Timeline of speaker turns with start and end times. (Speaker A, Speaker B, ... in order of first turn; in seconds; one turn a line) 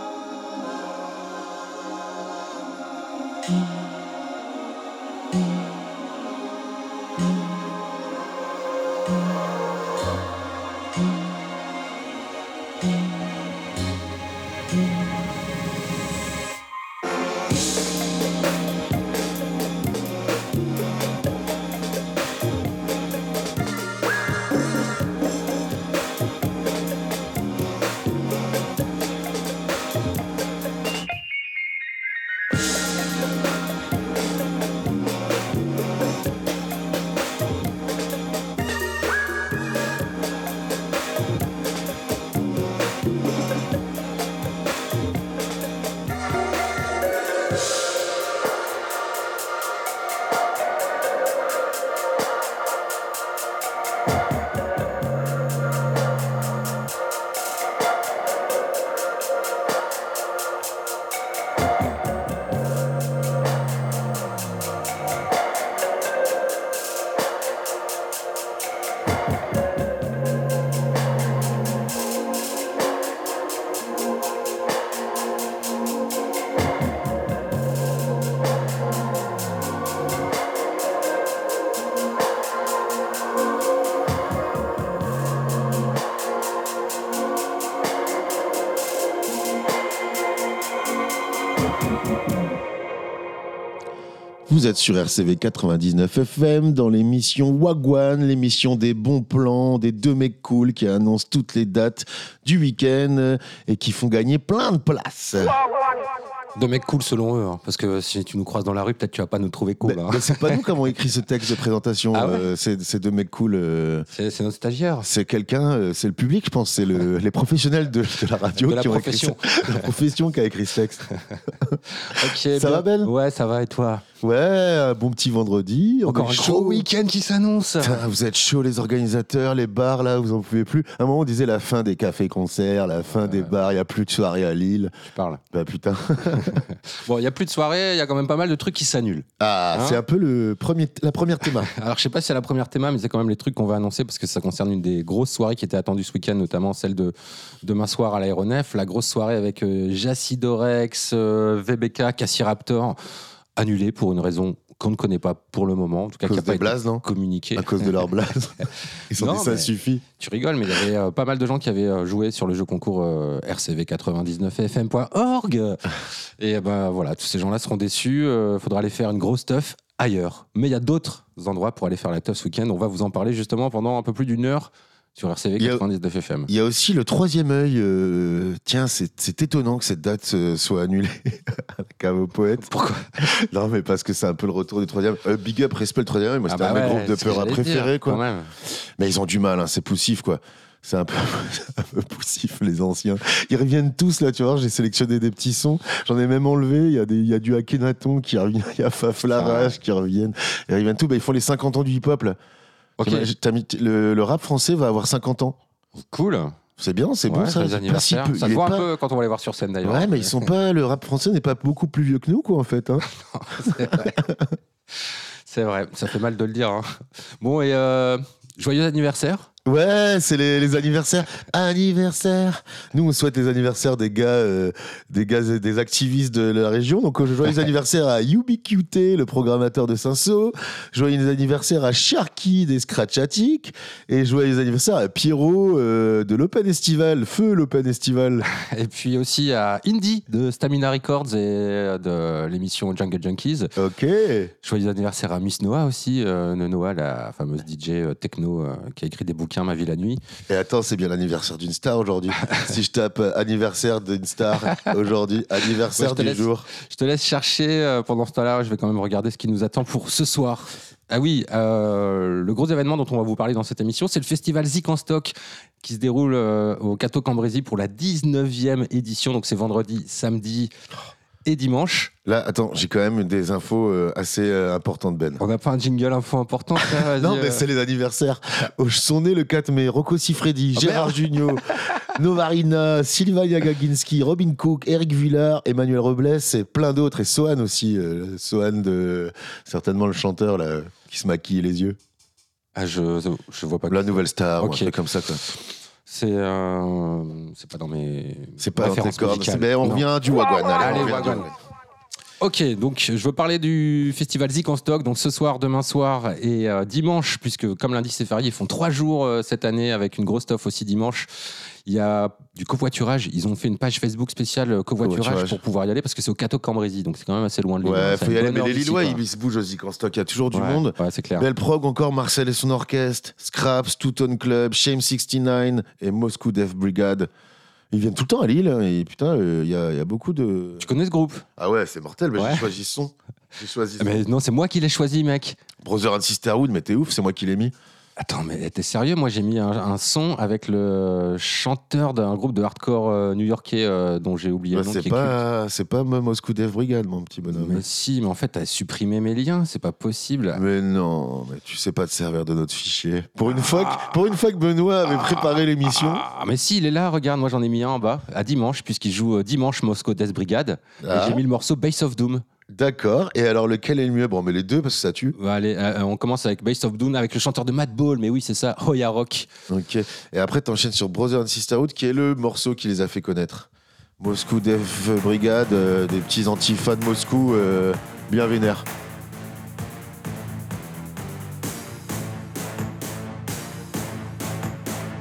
Speaker A: 94.5-105.6
Speaker B: 106.5-110.6
Speaker A: 109.8-114.1
Speaker B: 112.1-112.5
Speaker B: 114.1-115.1
Speaker A: 115.0-121.1
Speaker B: 118.6-119.9
Speaker A: 121.6-123.1
Speaker B: 122.0-124.0
Speaker A: 124.2-126.9
Speaker B: 126.1-128.0
Speaker A: 127.8-134.9
Speaker B: 133.2-133.5
Speaker B: 135.1-135.4
Speaker A: 135.5-136.6
Speaker B: 136.4-140.0
Speaker A: 139.4-141.7
Speaker B: 141.7-153.0
Speaker B: 153.6-157.9
Speaker A: 156.2-157.0
Speaker A: 157.6-160.0
Speaker B: 159.2-176.5
Speaker A: 175.6-175.8
Speaker A: 176.5-202.4
Speaker B: 182.6-183.1
Speaker B: 186.5-188.5
Speaker B: 199.4-199.8
Speaker B: 203.0-203.3
Speaker A: 203.0-205.6
Speaker B: 206.0-206.6
Speaker A: 206.8-208.9
Speaker B: 207.3-210.5
Speaker A: 209.8-213.0
Speaker B: 213.3-214.2
Speaker A: 213.7-214.5
Speaker B: 215.5-219.5
Speaker A: 219.7-238.5
Speaker B: 238.5-243.7
Speaker A: 243.8-244.5
Speaker B: 244.6-250.2
Speaker A: 250.5-256.7
Speaker B: 256.0-270.7
Speaker B: 271.4-272.1
Speaker A: 272.3-275.4
Speaker B: 275.4-277.6
Speaker A: 276.8-292.0
Speaker B: 280.8-281.4
Speaker B: 292.8-294.9
Speaker A: 293.9-295.4
Speaker B: 296.1-300.1
Speaker A: 298.6-301.5
Speaker B: 300.8-301.5
Speaker B: 302.4-311.3
Speaker B: 311.9-319.2
Speaker A: 315.0-315.6
Speaker A: 317.8-327.3
Speaker B: 320.5-321.5
Speaker A: 327.9-330.9
Speaker B: 330.8-331.4
Speaker A: 331.6-334.2
Speaker B: 332.4-332.7
Speaker B: 334.0-335.6
Speaker A: 335.8-337.7
Speaker B: 338.2-345.4
Speaker A: 344.7-347.8
Speaker B: 347.5-350.6
Speaker A: 350.5-356.2
Speaker B: 353.5-354.1
Speaker B: 355.1-362.4
Speaker A: 361.0-361.4
Speaker A: 362.7-365.4
Speaker B: 365.4-369.5
Speaker A: 369.7-373.7
Speaker A: 374.2-378.9